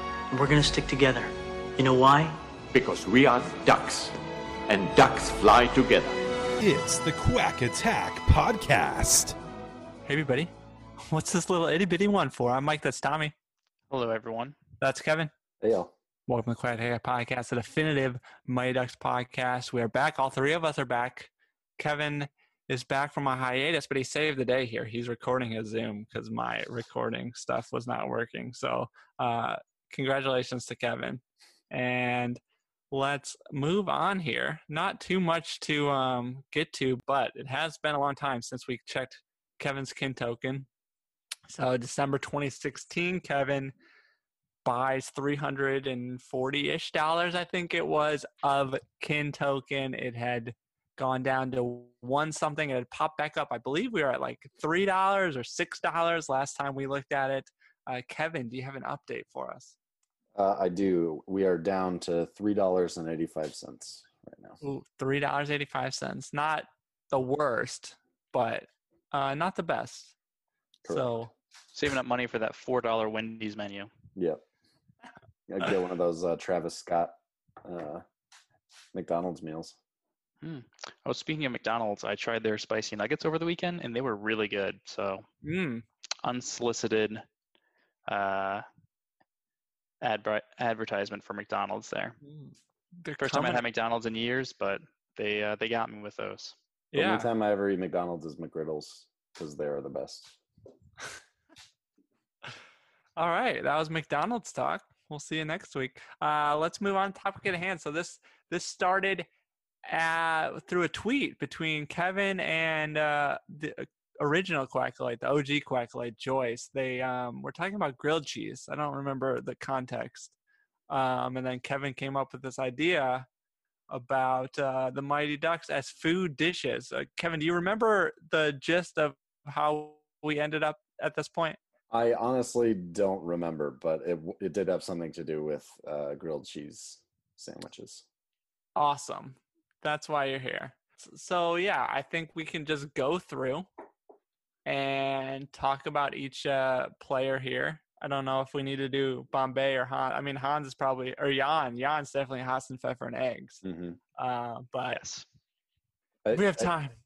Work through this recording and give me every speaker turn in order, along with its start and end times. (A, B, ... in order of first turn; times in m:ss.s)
0:00.3-0:02.4 A
0:02.7-0:04.1 B
0:04.7-0:06.2 B
0:06.6-0:09.4 C
0:10.0-0:10.5 D
0:11.1-0:13.3 D
0:13.9-0:14.6 E
0:14.8-0:15.3 D
0:15.6-0:15.9 F
0:16.3-0:32.4 D
0:32.9-0:40.7 D
0:41.5-0:43.7 D
0:44.6-0:59.7 D
1:00.3-1:04.6 F
1:04.6-1:10.1 D
1:10.8-1:11.1 F
1:10.9-1:11.3 D
1:11.7-1:13.9 E
1:14.2-1:14.4 F
1:15.5-1:18.0 F
1:18.9-1:19.8 F
1:20.4-1:25.2 E
1:25.4-1:25.8 D
1:26.2-1:27.2 E
1:28.1-1:28.6 E
1:30.0-1:32.2 E
1:32.2-1:33.6 D
1:33.2-1:36.6 E
1:36.9-1:40.4 F
1:36.9-1:37.3 D
1:43.2-1:49.3 D
1:49.8-2:00.3 D
2:00.9-2:03.3 D
2:03.9-2:11.6 D
2:11.9-2:18.0 F
2:18.8-2:23.7 D
2:24.6-2:33.6 D
2:33.6-2:34.0 F
2:34.2-2:35.0 D
2:34.9-2:35.2 E
2:36.2-2:36.7 F
2:36.3-2:36.9 D